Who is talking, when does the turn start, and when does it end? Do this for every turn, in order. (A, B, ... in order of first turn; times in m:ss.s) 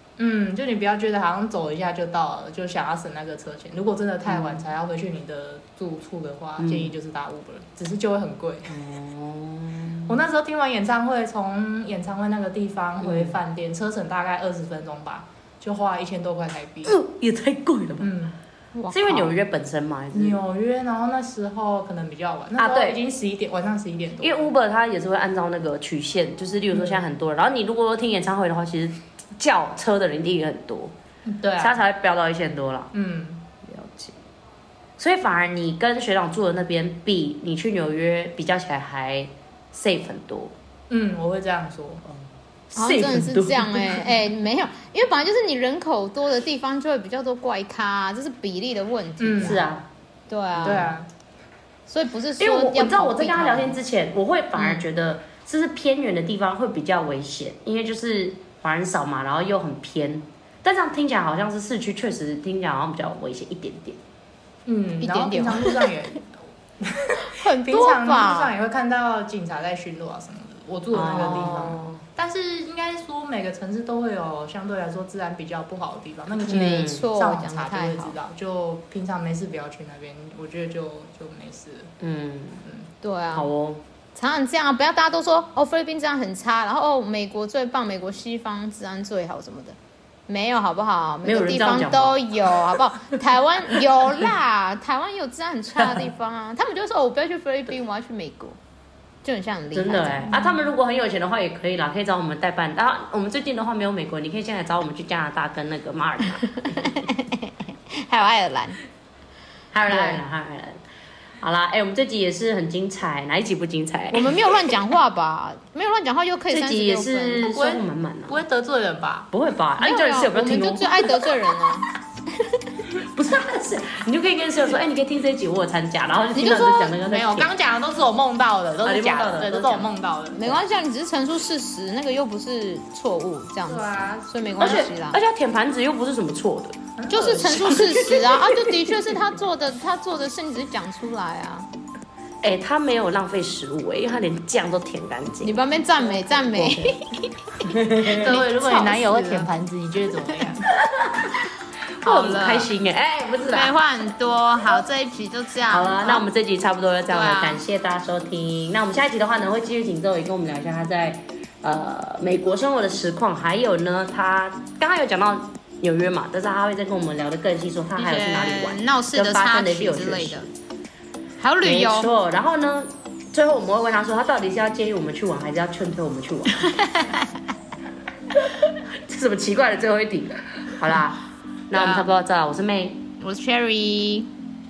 0:00.2-0:08.8 A
0:04.3-0:04.6 B
0:06.6-0:06.9 B
0:08.7-0:10.2 B
0:10.1-0:17.0 A
0:13.0-0:13.4 B
0:16.8-0:18.1 B
0:18.0-0:18.4 A
0:18.7-0:19.3 C
0:18.9-0:20.4 B
0:20.1-0:24.5 A
0:22.6-0:23.0 B
0:24.2-0:30.9 B
0:26.7-0:27.0 A
0:31.3-0:31.8 A
0:31.6-0:32.9 B
0:32.9-0:33.4 A
0:33.6-0:34.2 B
0:35.0-0:40.5 B
0:40.9-0:42.0 A
0:42.7-0:44.1 B
0:42.8-0:49.6 C
0:49.2-0:49.6 A
0:49.4-0:49.9 B
0:50.3-0:50.9 C
0:50.6-0:51.1 A
0:50.6-0:50.9 B
0:51.9-0:53.8 C
0:52.4-1:04.0 B
1:04.7-1:21.9 A
1:05.0-1:05.8 C
1:07.2-1:08.5 C
1:10.9-1:12.0 B
1:16.5-1:18.2 C
1:16.5-1:17.0 B
1:22.0-1:22.6 B
1:23.0-1:23.5 C
1:23.3-1:23.8 B
1:24.2-1:29.8 C
1:30.3-1:38.6 C
1:31.2-1:32.8 B
1:35.8-1:36.0 B
1:39.2-1:40.3 C
1:39.7-1:47.0 B
1:40.3-1:40.6 A
1:46.6-1:48.8 C
1:49.7-1:50.8 B
1:51.4-1:54.4 B
1:54.1-1:57.5 C
1:56.5-1:58.4 B
1:57.4-1:59.3 A
1:59.3-2:01.2 B
1:59.8-2:01.9 C
2:03.0-2:07.5 B
2:06.4-2:06.9 C
2:06.4-2:10.5 A
2:08.8-2:09.9 B
2:10.3-2:15.2 C
2:13.7-2:14.8 A
2:14.6-2:16.8 B
2:17.0-2:17.8 A
2:17.1-2:21.7 C
2:17.4-2:19.1 B
2:22.4-2:26.9 B
2:25.4-2:29.5 C
2:27.6-2:28.4 B
2:28.1-2:30.7 A
2:30.9-2:31.3 B
2:32.0-2:33.7 B
2:32.0-2:32.7 C
2:33.5-2:36.2 C
2:35.7-2:50.5 B
2:37.1-2:37.6 C
2:48.0-2:50.5 C
2:51.4-2:52.1 C
2:51.6-2:56.7 B
2:56.6-2:57.3 C
2:59.0-3:03.0 B
3:01.7-3:02.0 C
3:03.2-3:04.3 C